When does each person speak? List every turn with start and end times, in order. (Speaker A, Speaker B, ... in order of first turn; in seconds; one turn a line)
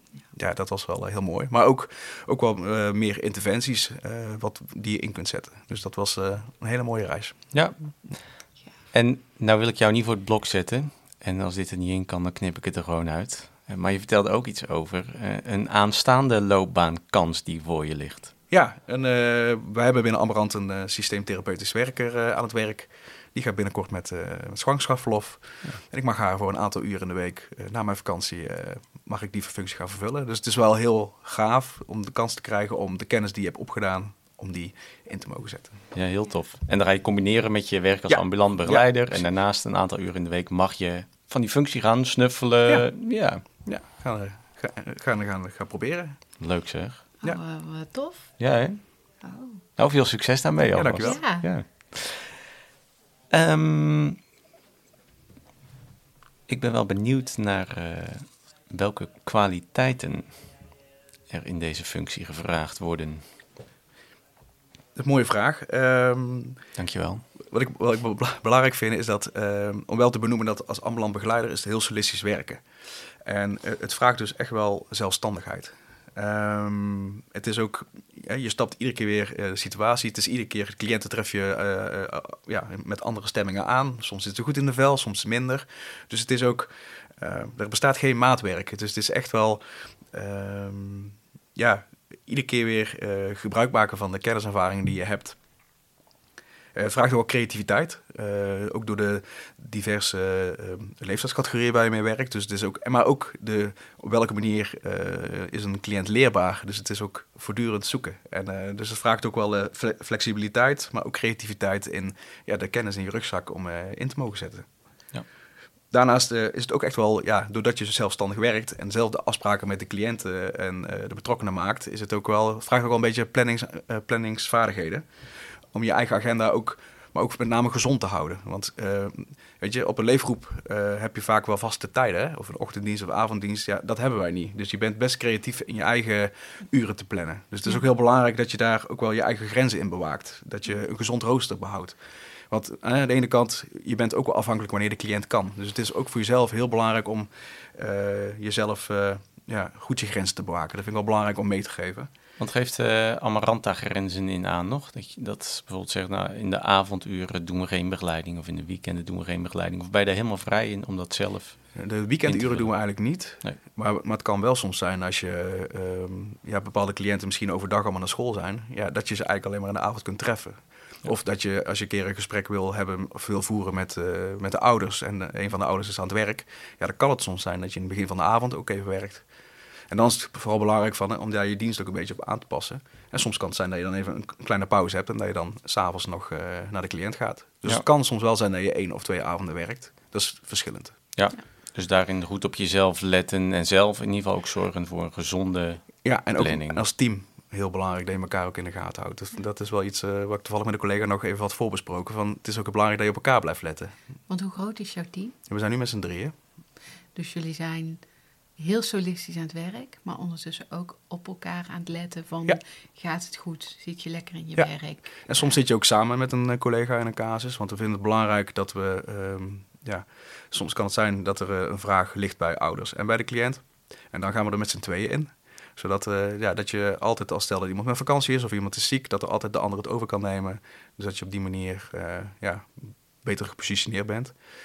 Speaker A: 0.3-7.4
Speaker B: 8.9-18.3
Speaker A: 18.5-35.8
Speaker B: 35.9-43.4
Speaker A: 38.1-39.2
Speaker A: 43.6-46.2
Speaker B: 46.4-47.0
Speaker C: 47.2-48.3
Speaker B: 48.4-48.8
Speaker C: 49.2-49.6
Speaker B: 49.8-52.4
Speaker A: 50.7-51.3
Speaker C: 51.0-51.5
Speaker B: 53.3-54.2
Speaker B: 56.5-60.4
Speaker B: 61.3-63.2
Speaker A: 65.0-66.6
Speaker B: 66.8-67.2
Speaker A: 67.5-72.6
Speaker A: 73.2-95.4
Speaker A: 96.7-114.7
Speaker A: 115.9-125.1
Speaker A: 125.7-142.0
Speaker A: 142.5-152.1
Speaker B: 152.4-161.6
Speaker A: 161.7-179.2
Speaker B: 162.2-162.9
Speaker A: 179.9-191.0
Speaker B: 191.2-196.8
Speaker A: 196.0-203.9
Speaker C: 204.3-205.3
Speaker A: 205.5-206.3
Speaker C: 207.1-208.0
Speaker C: 208.6-215.5
Speaker A: 214.6-234.3